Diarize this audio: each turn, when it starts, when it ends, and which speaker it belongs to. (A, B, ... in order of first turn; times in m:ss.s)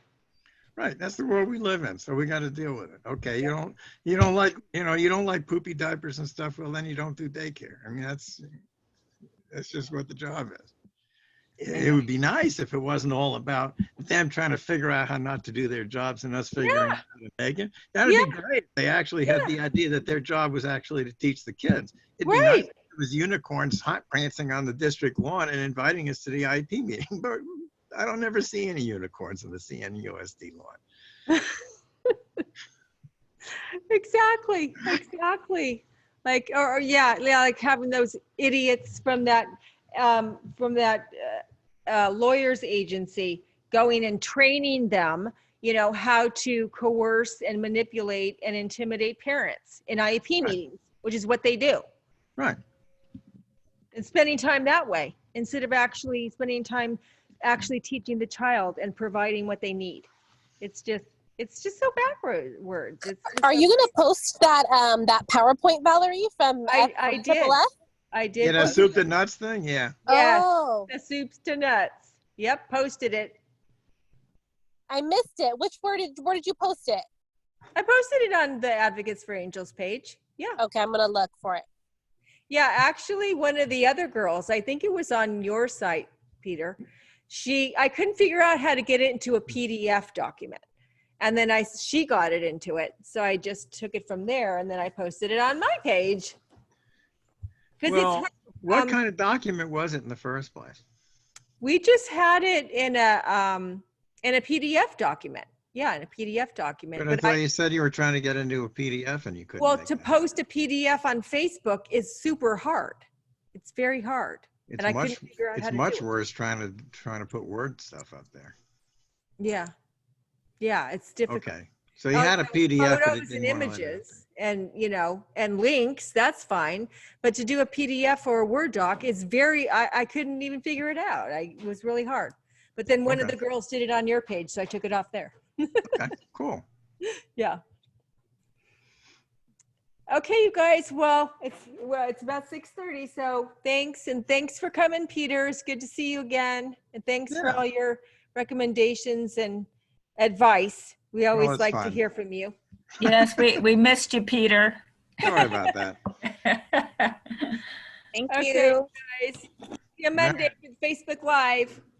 0:00.8-0:08.5 A
0:09.5-0:10.7 A
0:11.6-0:30.8 A
0:16.6-0:17.0 B
0:18.0-0:18.3 B
0:19.2-0:19.5 B
0:22.2-0:22.7 B
0:33.9-0:51.8 B
0:53.9-1:00.1 B
1:00.6-1:03.9 B
1:03.4-1:07.7 C
1:06.7-1:07.6 B
1:08.1-1:09.0 B
1:08.4-1:10.0 A
1:10.1-1:10.9 C
1:10.1-1:13.4 B
1:14.9-1:17.0 C
1:17.8-1:20.6 B
1:20.6-1:21.6 C
1:22.5-1:26.8 B
1:27.3-1:30.6 B
1:31.2-1:36.4 B
1:37.8-1:39.0 B
1:37.8-1:40.8 A
1:41.6-1:47.4 B
1:47.0-1:50.2 A
1:49.6-1:53.0 B
1:53.5-1:56.0 B
1:54.7-1:58.5 A
1:59.4-1:59.7 B
2:00.6-2:01.4 B
2:01.3-2:04.1 A
2:02.1-2:15.9 B
2:13.1-2:13.4 A
2:15.9-2:16.6 A
2:17.3-2:17.6 B
2:20.1-2:32.5 B
2:27.3-2:27.6 A
2:31.3-2:32.0 A
2:33.0-2:34.8 D
2:35.2-2:36.0 A
2:36.4-2:37.6 D
2:38.1-2:38.8 C
2:38.3-2:39.4 B
2:40.0-2:41.8 B
2:40.2-2:40.5 A